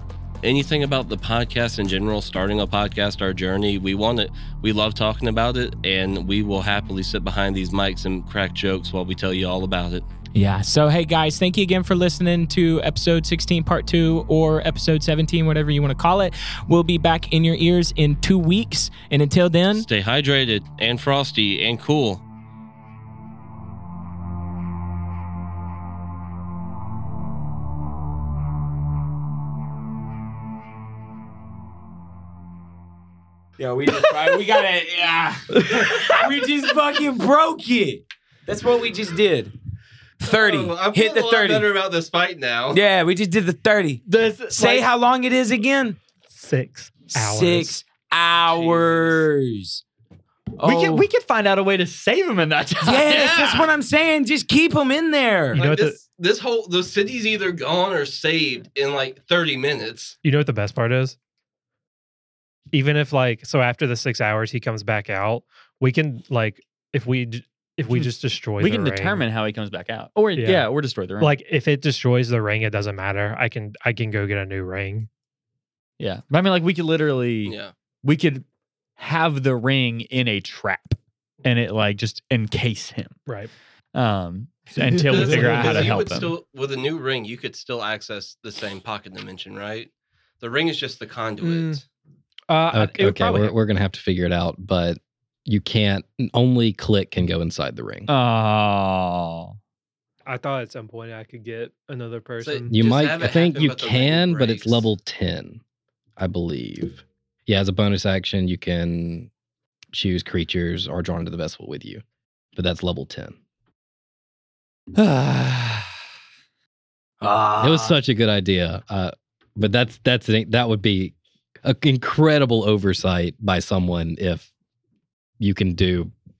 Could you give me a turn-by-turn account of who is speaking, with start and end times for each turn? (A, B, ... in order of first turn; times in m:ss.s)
0:00.4-0:10.0 A
0:10.3-0:19.8 B
0:19.7-0:22.2 A
0:33.6-0:39.5 B
0:35.6-0:36.1 C
0:40.2-0:41.7 B
0:40.2-0:42.8 A
0:42.7-0:46.0 B
0:44.0-0:44.8 C
0:46.3-0:47.8 D
0:47.1-0:49.8 B
0:48.4-0:49.2 A
0:50.6-0:51.0 B
0:50.6-0:53.7 C
0:52.8-0:55.6 B
0:55.5-0:56.0 D
0:55.5-1:00.1 A
1:00.2-1:01.2 D
1:02.7-1:09.2 D
1:08.6-1:11.3 C
1:10.4-1:10.7 D
1:11.2-1:15.1 D
1:16.0-1:18.4 C
1:17.4-1:17.7 A
1:19.0-1:23.2 C
1:23.9-1:26.3 C
1:24.9-1:26.0 D
1:25.1-1:29.9 A
1:30.4-1:31.8 A
1:31.4-1:31.8 D
1:32.5-1:33.5 D
1:32.7-1:38.1 E
1:38.1-1:39.6 C
1:40.2-1:42.7 D
1:42.4-1:44.9 A
1:42.7-1:45.6 E
1:46.2-1:49.3 E
1:49.9-1:52.0 E
1:52.6-1:53.3 E
1:55.1-1:55.8 C
1:57.2-1:58.0 B
1:57.6-2:04.5 E
2:05.4-2:06.1 E